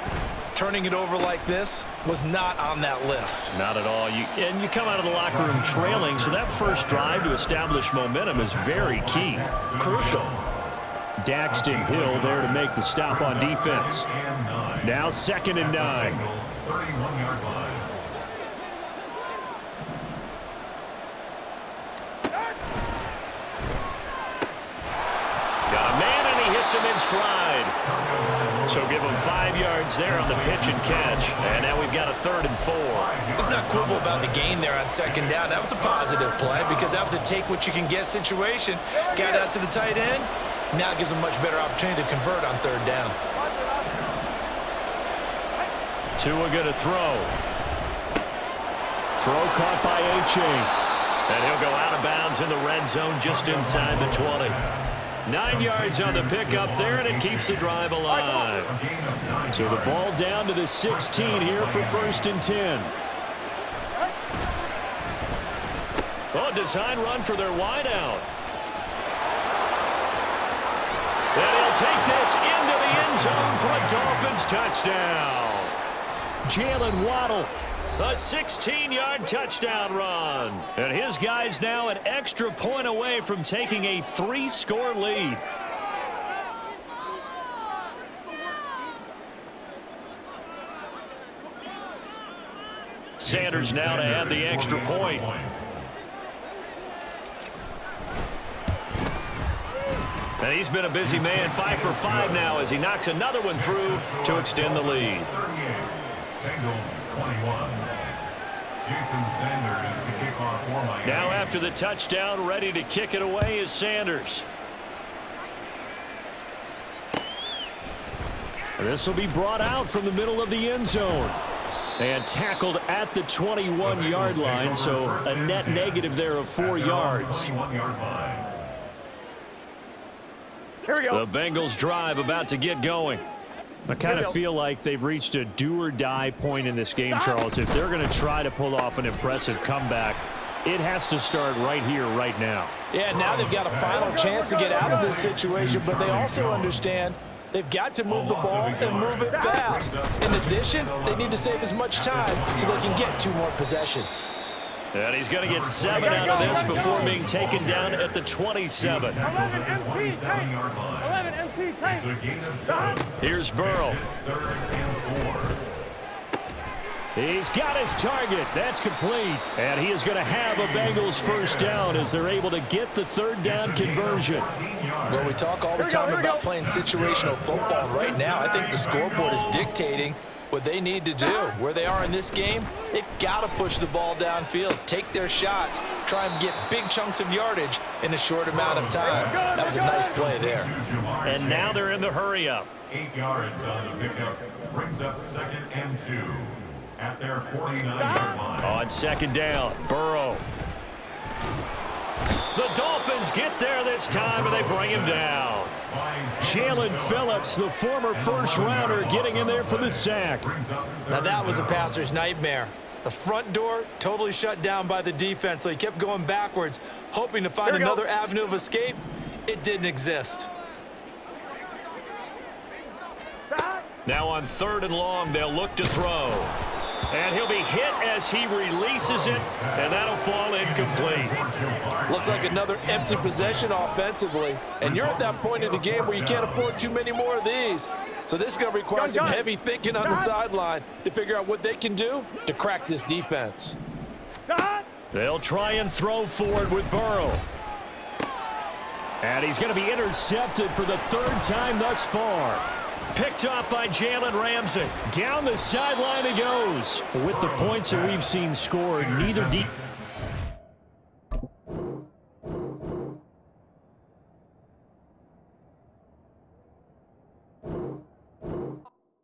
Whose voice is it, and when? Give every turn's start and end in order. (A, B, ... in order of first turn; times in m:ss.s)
0:00.5-0:03.5 A
0:03.5-0:09.4 B
0:05.3-0:07.5 C
0:08.3-0:10.6 C
0:09.8-0:10.4 A
0:11.2-0:14.1 B
0:11.5-0:17.9 C
0:14.8-0:16.2 B
0:25.7-0:27.8 B
0:27.8-0:32.1 C
0:28.7-0:33.1 B
0:32.9-0:35.7 C
0:33.4-0:43.2 A
0:36.3-0:36.6 C
0:46.2-0:47.3 B
0:49.2-0:50.7 B
0:51.3-0:54.6 B
0:53.2-1:00.1 C
0:55.2-0:58.8 B
0:59.5-1:02.9 B
1:00.9-1:02.4 C
1:06.3-1:08.3 B
1:11.3-1:15.7 B
1:16.4-1:25.4 B
1:33.2-1:35.3 B
1:33.2-1:35.6 C
1:40.4-1:45.3 B
1:41.0-1:42.6 C
1:43.5-1:47.9 C
1:48.8-1:51.5 C
1:51.0-1:54.4 B
1:58.8-2:01.4 B
2:02.0-2:07.5 B
2:03.8-2:08.5 C
2:10.8-2:11.2 D
2:11.1-2:13.2 B
2:13.9-2:22.7 B
2:14.0-2:14.4 D
2:22.9-2:34.3 A
2:23.1-2:27.1 C
2:28.0-2:33.3 C
2:34.9-2:39.2 B
2:35.4-2:38.2 C
2:36.2-2:37.1 D
2:38.7-2:45.6 C
2:39.3-2:40.3 D
2:41.0-2:41.9 D
2:43.2-2:44.0 B
2:47.2-2:54.5 B
2:50.2-2:52.3 C
2:53.4-2:55.4 C
2:55.1-3:10.7 A
2:55.8-2:56.4 D
2:56.6-2:59.9 C
3:08.6-3:12.0 C
3:09.0-3:10.3 D
3:11.2-3:12.7 B
3:12.9-3:18.8 C
3:18.0-3:18.3 D
3:18.6-3:20.4 B
3:22.5-3:25.8 B
3:24.1-3:25.3 C
3:25.8-3:27.5 C
3:26.4-3:30.5 B
3:28.1-3:32.1 C
3:31.1-3:40.5 A
3:37.6-3:38.0 D
3:43.5-3:43.8 D
3:44.0-3:46.5 B
3:47.1-3:51.4 B
3:49.0-3:53.9 C
3:52.1-4:03.8 A
3:54.8-3:56.9 C
3:58.9-3:59.4 D
4:00.0-4:00.3 D
4:04.5-4:04.9 D
4:05.1-4:07.4 B
4:09.2-4:19.7 B
4:17.3-4:18.3 C
4:18.9-4:19.8 C